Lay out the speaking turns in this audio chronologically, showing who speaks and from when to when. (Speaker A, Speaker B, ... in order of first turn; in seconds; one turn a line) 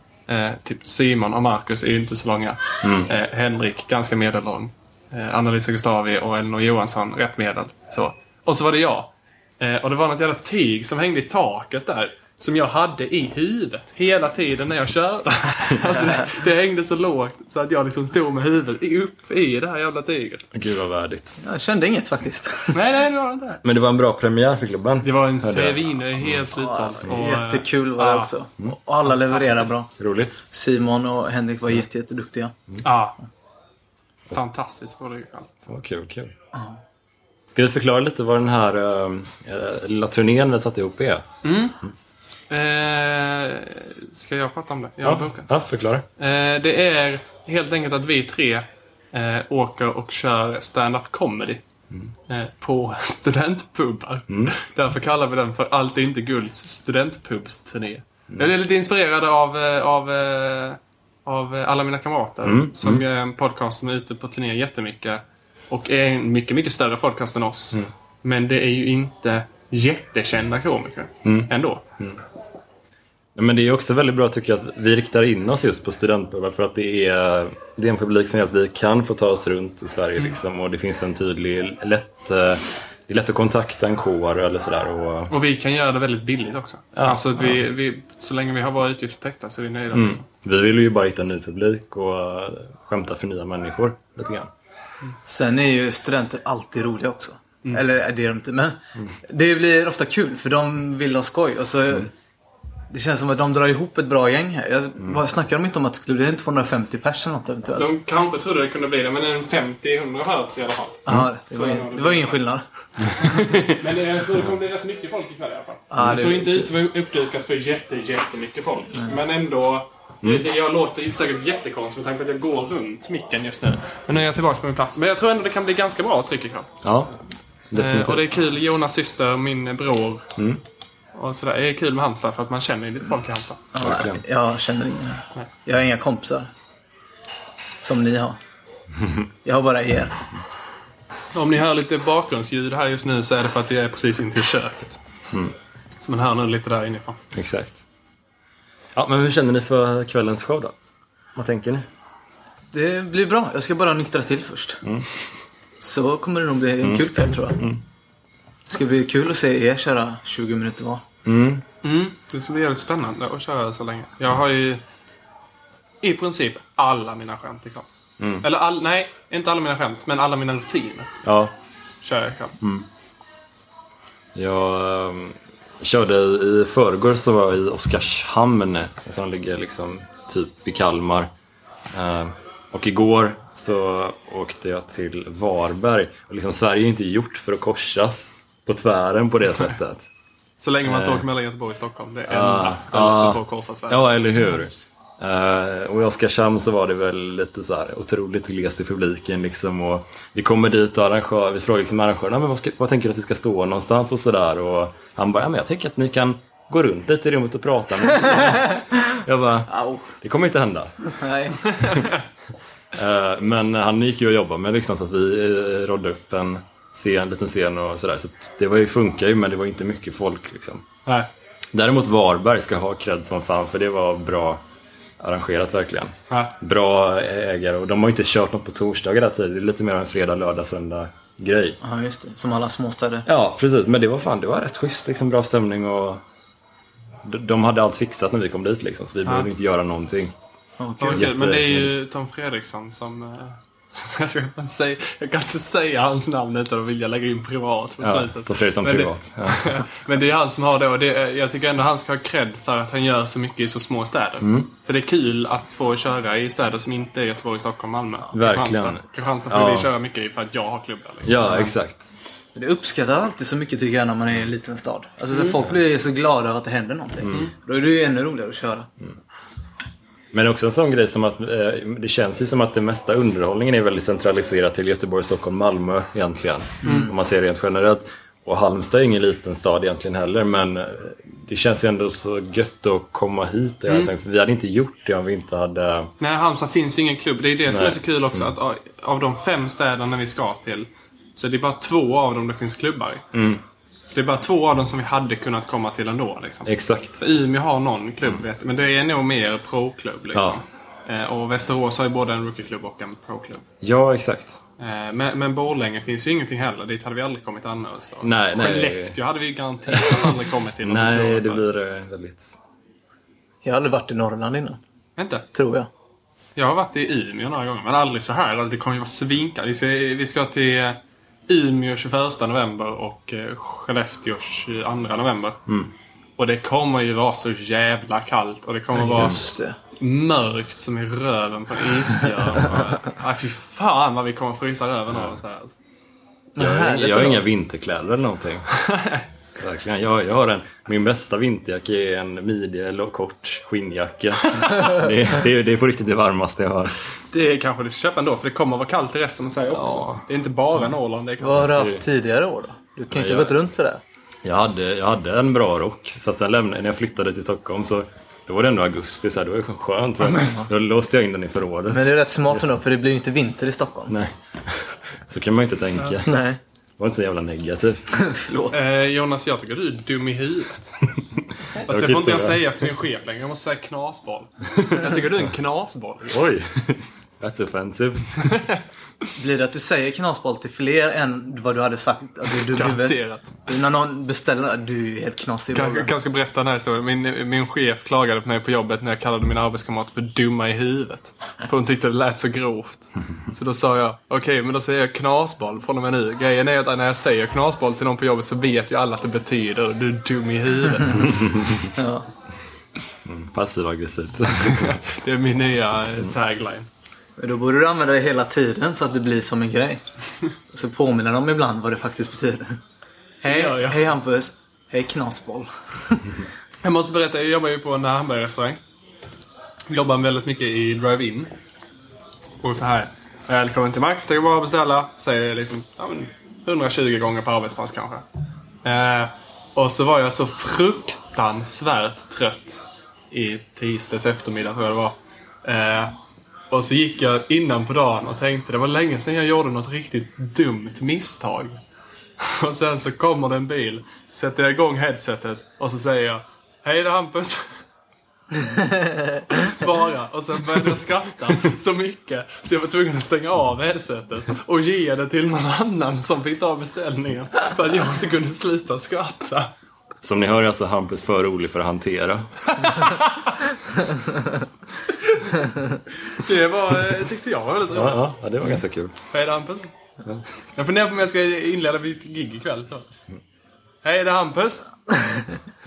Speaker A: 0.3-20.5
Speaker B: 2.8-3.1
Speaker B: 20.5-21.4
Speaker C: 21.4-22.8
Speaker A: 22.7-23.6
Speaker B: 23.6-26.5
Speaker A: 25.0-28.3
Speaker C: 26.5-29.9
Speaker A: 29.1-29.7
Speaker B: 30.0-30.4
Speaker C: 30.5-32.5
Speaker A: 32.8-33.2
Speaker A: 34.3-35.5
Speaker B: 35.7-36.3
Speaker C: 36.5-36.8
Speaker B: 37.5-41.3
Speaker A: 41.4-41.8
Speaker A: 42.5-45.5
Speaker B: 45.0-46.1
Speaker A: 46.2-51.6
Speaker A: 52.3-71.8
Speaker B: 54.3-54.5
Speaker B: 62.5-63.0
Speaker B: 71.2-72.2
Speaker B: 73.4-85.3
Speaker A: 85.3-90.3
Speaker B: 87.0-87.6
Speaker B: 89.9-94.5
Speaker C: 95.3-102.1
Speaker C: 102.9-107.9
Speaker A: 107.8-112.4
Speaker C: 111.1-112.7
Speaker B: 113.2-113.8
Speaker A: 113.3-126.7
Speaker C: 115.9-116.7
Speaker B: 126.8-127.2
Speaker B: 127.7-128.3
Speaker A: 127.8-130.3
Speaker A: 131.2-133.7
Speaker C: 133.7-136.5
Speaker B: 133.8-134.2
Speaker C: 137.8-138.4
Speaker C: 139.4-140.2
Speaker A: 141.3-145.0
Speaker A: 146.0-147.2
Speaker B: 147.3-147.8
Speaker B: 148.9-150.8
Speaker B: 151.4-151.9
Speaker C: 152.7-154.8
Speaker C: 155.8-157.6
Speaker B: 156.8-157.8
Speaker C: 158.7-161.0
Speaker B: 161.2-161.6
Speaker A: 161.8-164.8
Speaker A: 166.0-167.9
Speaker B: 168.2-168.4
Speaker A: 168.4-171.1
Speaker B: 171.2-171.5
Speaker A: 172.0-172.6
Speaker B: 172.6-172.9
Speaker B: 174.3-181.3
Speaker B: 181.9-190.0
Speaker A: 190.6-194.1
Speaker B: 190.8-191.2
Speaker B: 192.3-211.0
Speaker C: 209.7-210.1
Speaker C: 211.1-211.9
Speaker B: 212.9-220.8
Speaker B: 221.7-224.6
Speaker B: 225.2-231.8
Speaker A: 226.3-226.6
Speaker C: 231.8-233.2
Speaker B: 233.3-236.2
Speaker B: 237.2-240.3
Speaker C: 240.8-241.3
Speaker A: 241.0-261.6
Speaker B: 241.1-241.9
Speaker B: 248.0-249.8
Speaker B: 254.4-254.7
Speaker B: 258.3-259.9
Speaker B: 261.2-262.1
Speaker C: 262.6-268.9
Speaker A: 265.3-265.6
Speaker B: 270.3-286.1
Speaker C: 276.8-277.1
Speaker A: 276.9-277.1
Speaker A: 286.2-293.2
Speaker B: 287.7-288.5
Speaker B: 293.3-293.6
Speaker A: 294.1-303.6
Speaker B: 296.7-297.2
Speaker B: 300.3-300.6
Speaker B: 303.8-304.6
Speaker A: 304.8-311.7
Speaker B: 308.2-309.2
Speaker B: 309.9-312.6
Speaker C: 313.6-314.8
Speaker A: 315.2-315.5
Speaker C: 315.5-315.9
Speaker A: 316.6-325.6
Speaker A: 326.4-329.4
Speaker C: 329.0-329.8
Speaker A: 330.0-335.7
Speaker B: 335.1-335.4
Speaker C: 336.6-337.4
Speaker B: 336.6-338.7
Speaker A: 338.8-339.2
Speaker B: 339.6-347.0
Speaker A: 344.5-344.9
Speaker A: 347.3-351.9
Speaker B: 349.7-350.2
Speaker C: 351.4-354.0
Speaker B: 351.6-352.0
Speaker B: 353.1-353.6
Speaker B: 354.4-362.6
Speaker C: 360.3-360.7
Speaker C: 361.9-364.1
Speaker B: 364.1-366.4
Speaker C: 366.2-366.6
Speaker B: 367.0-368.1
Speaker C: 368.1-368.8
Speaker A: 368.7-371.0
Speaker A: 371.8-376.4
Speaker B: 371.9-372.6
Speaker B: 374.8-375.1
Speaker B: 376.3-378.6
Speaker C: 379.4-386.1
Speaker A: 382.7-383.7
Speaker A: 385.7-401.7
Speaker B: 401.2-401.9
Speaker C: 402.0-402.3
Speaker B: 403.2-405.0
Speaker A: 404.7-406.9
Speaker C: 407.4-410.0
Speaker C: 410.7-412.8
Speaker C: 413.4-416.4
Speaker A: 413.5-414.0
Speaker A: 416.8-418.8
Speaker A: 419.9-421.5
Speaker A: 422.6-428.2
Speaker A: 428.8-436.2
Speaker A: 436.7-441.8
Speaker A: 442.4-447.8
Speaker C: 448.8-449.4
Speaker A: 449.5-459.7
Speaker B: 460.2-462.5
Speaker A: 462.8-463.5
Speaker A: 466.3-468.2
Speaker B: 467.9-469.1
Speaker A: 469.3-469.9
Speaker A: 470.8-473.1
Speaker A: 474.0-474.9